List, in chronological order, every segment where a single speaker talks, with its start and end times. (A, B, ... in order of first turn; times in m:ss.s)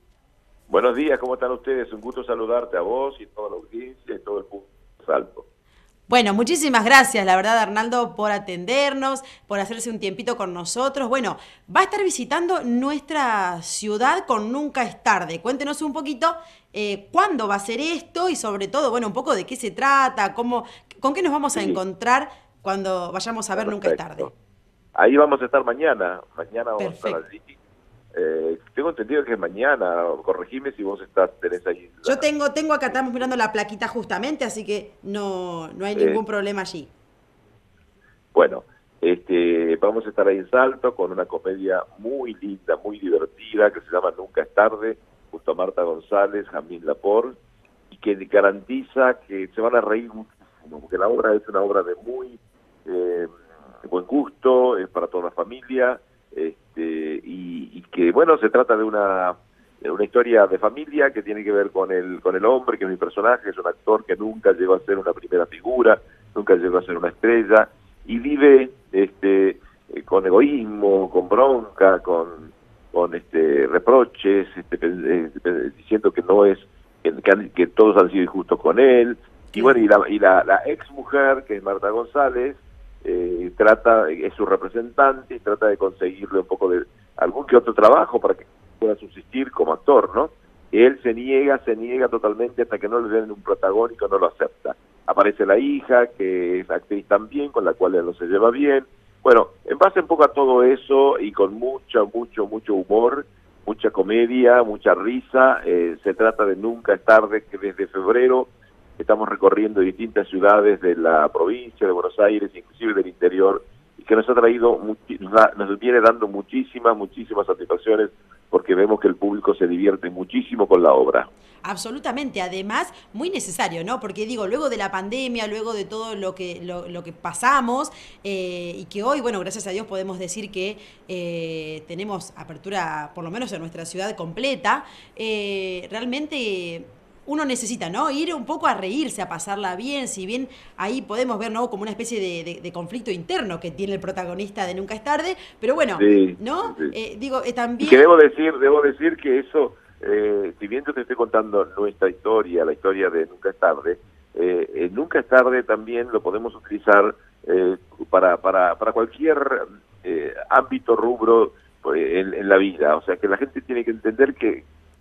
0:00.7-0:05.4 A
0:06.1-0:24.3 B
0:21.5-0:21.8 A
0:23.6-0:24.3 A
0:25.0-0:27.6 A
0:26.8-0:27.2 B
0:28.1-0:32.2 A
0:32.0-0:36.9 B
0:32.9-0:33.3 A
0:35.9-0:36.2 A
0:38.3-0:47.4 A
0:47.9-0:53.3 A
0:53.8-2:01.3 A
1:19.5-1:19.8 B
2:01.6-2:28.0 B
2:26.0-2:26.9 A
2:27.8-2:44.6 A